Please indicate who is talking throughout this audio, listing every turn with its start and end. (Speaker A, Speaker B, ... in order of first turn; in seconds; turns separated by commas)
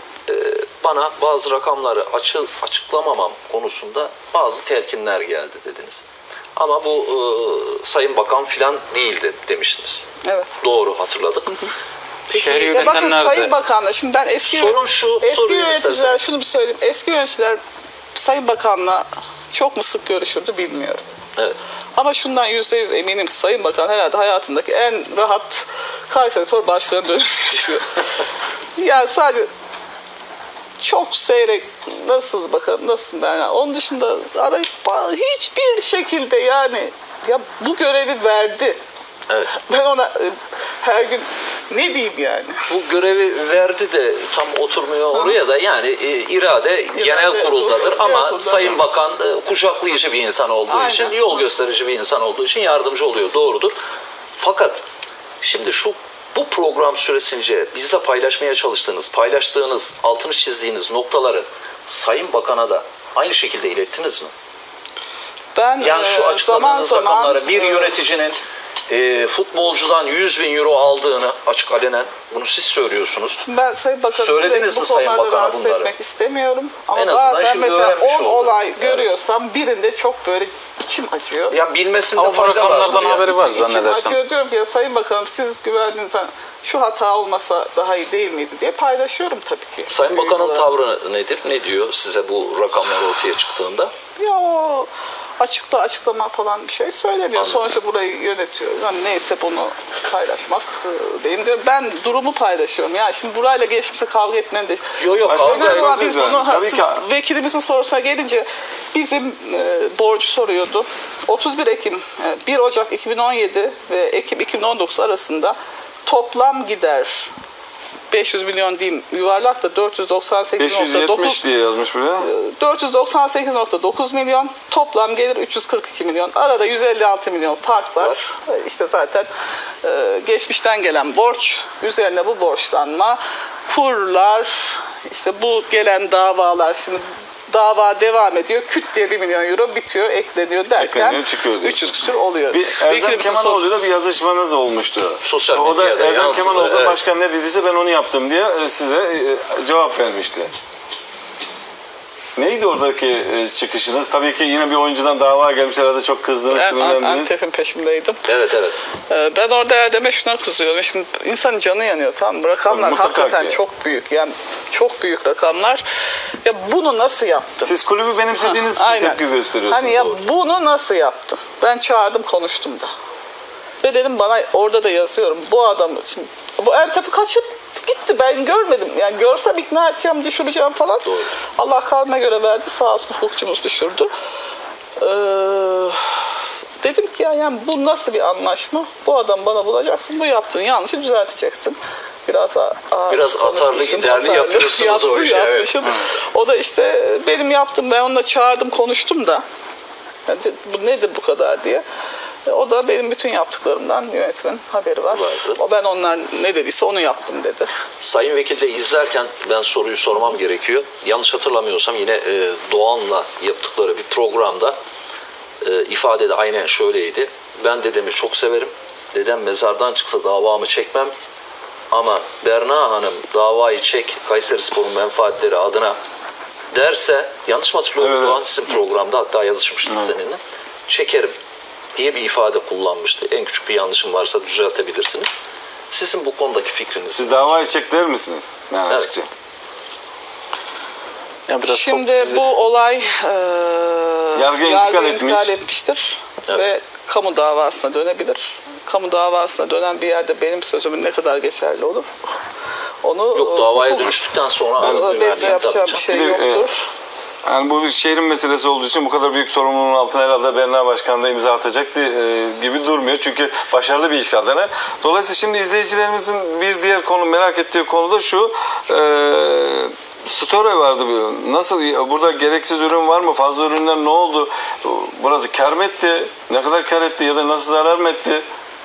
Speaker A: 0.3-6.0, Speaker A: 6.6-10.1, Speaker B: 10.2-10.6, Speaker A: 10.6-11.6, Speaker C: 12.3-13.6, Speaker B: 12.3-17.6, Speaker A: 14.5-16.2, Speaker B: 18.1-21.0, Speaker B: 22.0-28.0, Speaker B: 28.8-29.5, Speaker B: 30.8-38.8, Speaker A: 39.3-39.6, Speaker B: 39.5-42.6, Speaker A: 42.7-53.8, Speaker B: 46.9-48.8, Speaker B: 50.7-51.4, Speaker A: 54.4-54.8, Speaker A: 55.4-64.3, Speaker B: 65.5-68.0, Speaker A: 65.8-73.4, Speaker B: 73.4-81.6, Speaker A: 74.1-75.9, Speaker A: 76.9-79.1, Speaker A: 81.5-83.6, Speaker C: 82.2-84.2, Speaker B: 83.0-90.7, Speaker A: 89.9-93.9, Speaker B: 94.2-117.3, Speaker A: 97.4-97.7, Speaker A: 105.0-106.0, Speaker D: 105.2-107.0, Speaker B: 118.1-121.4, Speaker D: 120.6-122.3, Speaker B: 122.2-129.3, Speaker B: 129.8-143.7, Speaker D: 140.8-142.0, Speaker D: 142.5-150.5, Speaker A: 145.2-147.0, Speaker D: 152.4-157.3, Speaker B: 156.5-158.2, Speaker A: 158.3-158.8, Speaker B: 159.1-165.8, Speaker D: 162.7-163.6, Speaker B: 166.4-167.7, Speaker D: 167.7-170.2, Speaker B: 168.4-172.9, Speaker B: 173.8-181.1, Speaker A: 181.0-181.3, Speaker B: 181.6-184.1, Speaker B: 185.0-199.4, Speaker A: 193.1-195.9, Speaker B: 200.3-201.8, Speaker B: 202.5-207.7, Speaker A: 205.1-205.6, Speaker A: 208.0-214.8, Speaker A: 215.6-221.1, Speaker A: 221.9-226.0, Speaker A: 226.7-231.4, Speaker D: 228.0-228.4, Speaker D: 229.8-230.2, Speaker A: 231.9-235.3, Speaker A: 235.9-237.5, Speaker D: 237.1-239.3, Speaker C: 241.5-242.4, Speaker B: 241.6-252.1, Speaker D: 244.3-245.5, Speaker B: 253.0-256.9, Speaker A: 253.3-256.1, Speaker D: 254.8-256.7, Speaker D: 257.4-278.4